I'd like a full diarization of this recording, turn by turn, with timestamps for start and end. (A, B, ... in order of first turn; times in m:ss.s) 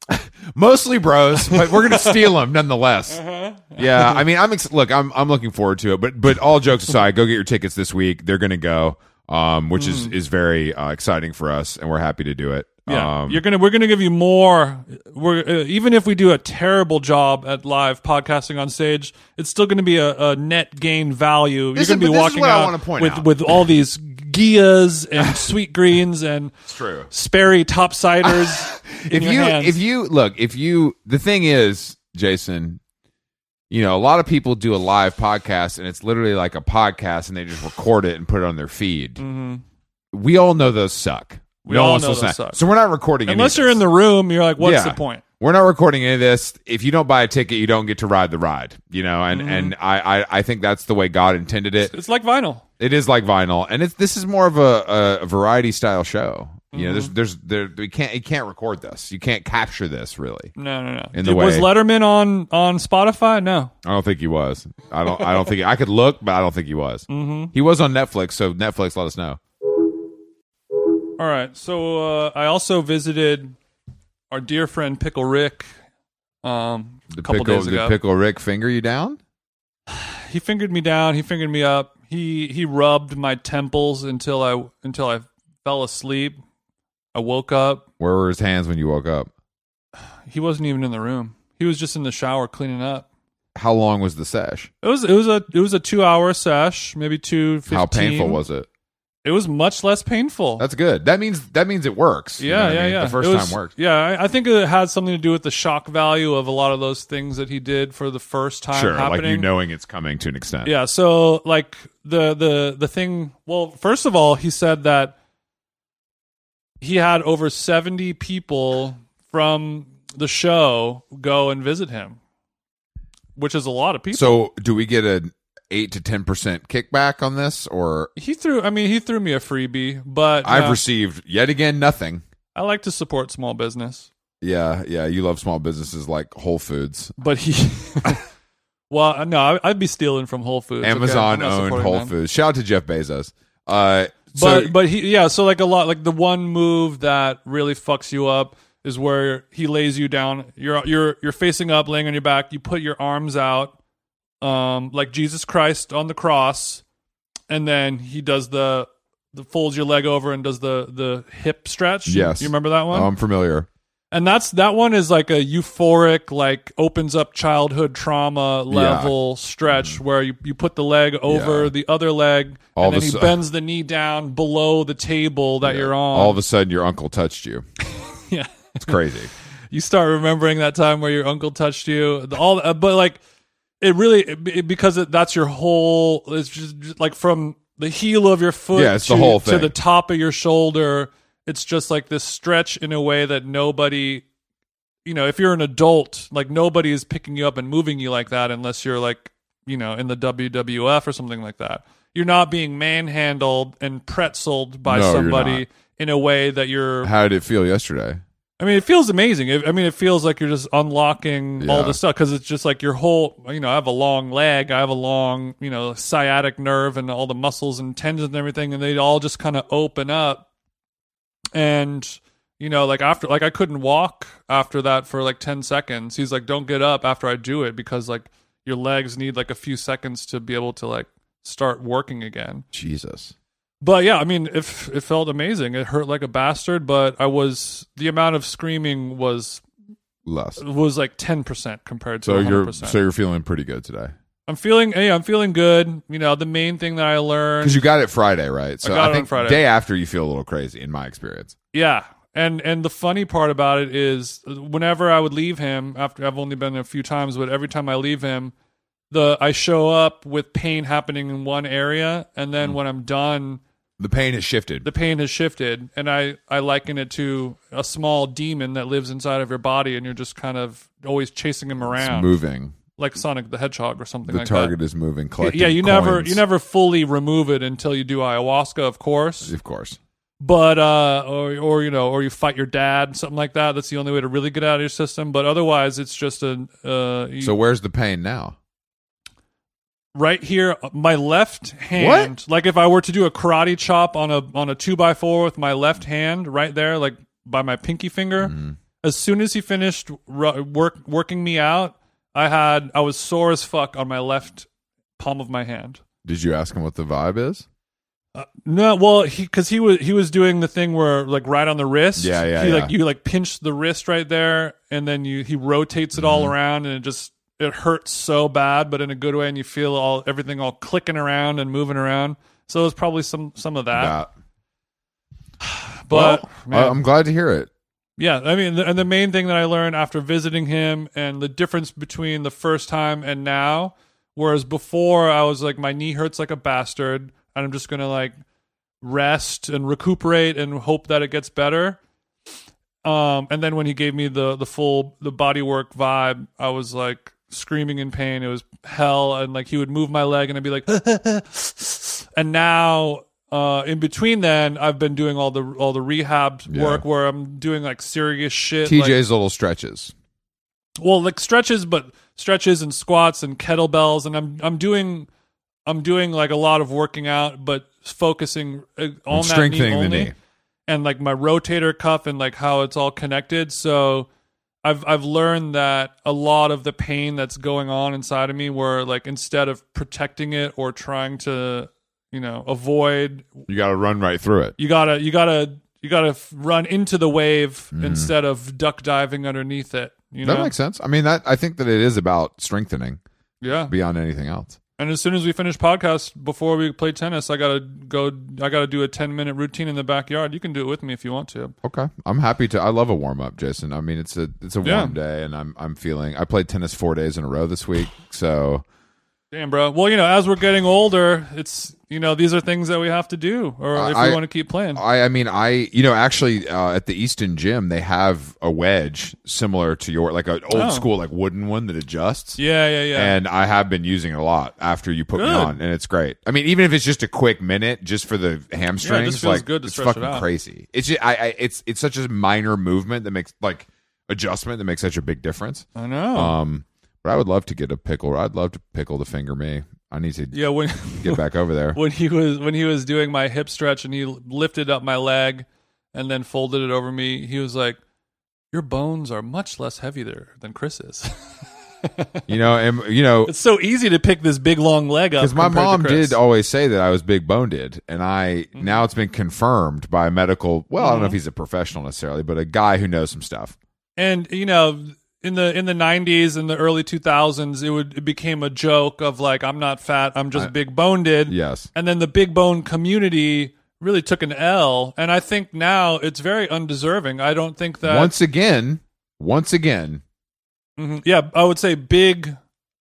0:00.1-0:03.2 A
0:01.5-0:02.2 B
0:03.1-0:04.2 B
0:03.7-0:13.4 A
0:09.8-0:10.1 B
0:12.9-0:26.5 B
0:21.8-0:23.3 A
0:26.7-0:27.1 A
0:27.1-0:29.8 B
0:28.2-0:32.8 A
0:33.7-0:39.2 A
0:39.2-0:39.6 B
0:40.1-0:43.8 A
0:41.6-0:42.6 B
0:43.3-0:45.2 B
0:44.6-0:51.9 A
0:49.3-0:49.7 B
0:51.8-0:52.6 B
0:52.8-1:00.5 A
0:56.7-0:57.1 B
1:00.6-1:03.7 B
1:01.1-1:01.7 A
1:03.8-1:09.4 A
1:07.1-1:07.5 B
1:11.2-1:13.6 B
1:14.3-1:15.7 B
1:16.4-1:18.0 B
1:17.1-1:19.2 A
1:19.9-1:26.4 B
1:27.1-1:27.8 B
1:28.0-1:29.3 A
1:30.3-1:33.1 B
1:33.6-1:34.7 A
1:34.8-1:38.4 B
1:37.7-1:38.7 A
1:39.2-1:40.7 B
1:40.6-1:43.7 A
1:42.4-1:49.5 B
1:48.7-1:50.7 A
1:50.6-1:55.2 B
1:56.8-2:02.2 B
2:03.4-2:04.4 B
2:04.1-2:08.1 A
2:08.2-2:10.8 B
2:10.4-2:12.2 A
2:12.6-2:14.1 B
2:14.4-2:17.1 A
2:17.2-2:18.2 B
2:18.9-2:22.1 B
2:20.8-2:24.8 A
2:24.4-2:33.8 B
2:34.4-2:36.8 B
2:37.5-2:43.1 B
2:42.1-2:43.7 A
2:44.1-2:56.4 B
2:48.7-2:49.1 A
2:49.7-2:50.0 A
2:51.3-2:51.7 A
2:52.8-2:53.4 A
2:55.6-2:57.6 A
2:58.3-2:59.0 B
2:58.8-2:59.3 A
2:59.7-3:03.2 B
3:03.8-3:14.2 B
3:08.7-3:09.8 A
3:15.1-3:27.1 B
3:24.9-3:25.6 A
3:27.0-3:28.2 A
3:28.6-3:40.4 B
3:31.6-3:32.0 A
3:41.5-3:52.6 B
3:52.7-3:53.3 A
3:53.8-3:59.6 B
4:00.3-4:00.6 A
4:00.6-4:03.0 B
4:02.2-4:04.1 A
4:04.5-4:07.8 B
4:07.6-4:11.6 A
4:08.8-4:09.6 B
4:11.7-4:18.5 B
4:19.1-4:23.6 B
4:24.0-4:24.9 A
4:24.8-4:32.3 B
4:31.8-4:32.8 A
4:33.0-4:34.8 B
4:34.3-4:36.4 A
4:35.4-4:39.5 B
4:39.4-4:40.0 A
4:40.4-4:47.5 B
4:47.4-4:48.6 A
4:50.2-5:04.7 B
4:52.0-4:52.3 A
4:58.4-4:58.8 A
5:05.2-5:06.0 B
5:06.2-5:07.7 A
5:08.4-5:24.2 B
5:12.2-5:12.9 A
5:16.2-5:16.5 A
5:23.9-5:24.3 A
5:25.6-5:27.0 B
5:26.1-5:27.7 A
5:28.2-5:38.4 B
5:39.0-5:42.0 B
5:43.0-5:59.2 B
5:56.7-5:57.0 A
5:58.9-6:00.1 A
6:01.0-6:05.3 B
6:05.9-6:10.3 B
6:09.3-6:10.3 A
6:10.9-6:14.3 B
6:14.8-6:23.6 B
6:23.7-6:24.8 A
6:24.8-6:30.7 B
6:27.9-6:28.3 A
6:30.4-6:33.2 A
6:33.6-6:33.9 B
6:33.9-6:34.8 A
6:35.0-6:41.7 B
6:41.8-6:48.8 A
6:44.8-6:45.2 B
6:49.5-6:55.0 B
6:53.9-6:54.4 A
6:55.0-7:02.6 A
7:00.7-7:01.1 B
7:02.6-7:03.4 B
7:03.1-7:20.6 A
7:05.4-7:05.8 B
7:09.0-7:10.5 B
7:16.0-7:16.6 B
7:20.5-7:21.4 B
7:21.2-7:22.0 A
7:21.9-7:28.0 B
7:28.7-7:31.5 B
7:32.0-7:32.4 B
7:32.5-7:33.5 A
7:33.4-7:36.4 B
7:35.4-7:43.8 A
7:41.0-7:41.4 B
7:44.2-7:58.3 B
7:51.5-7:51.9 A
7:58.0-8:00.2 A
8:01.0-8:02.6 B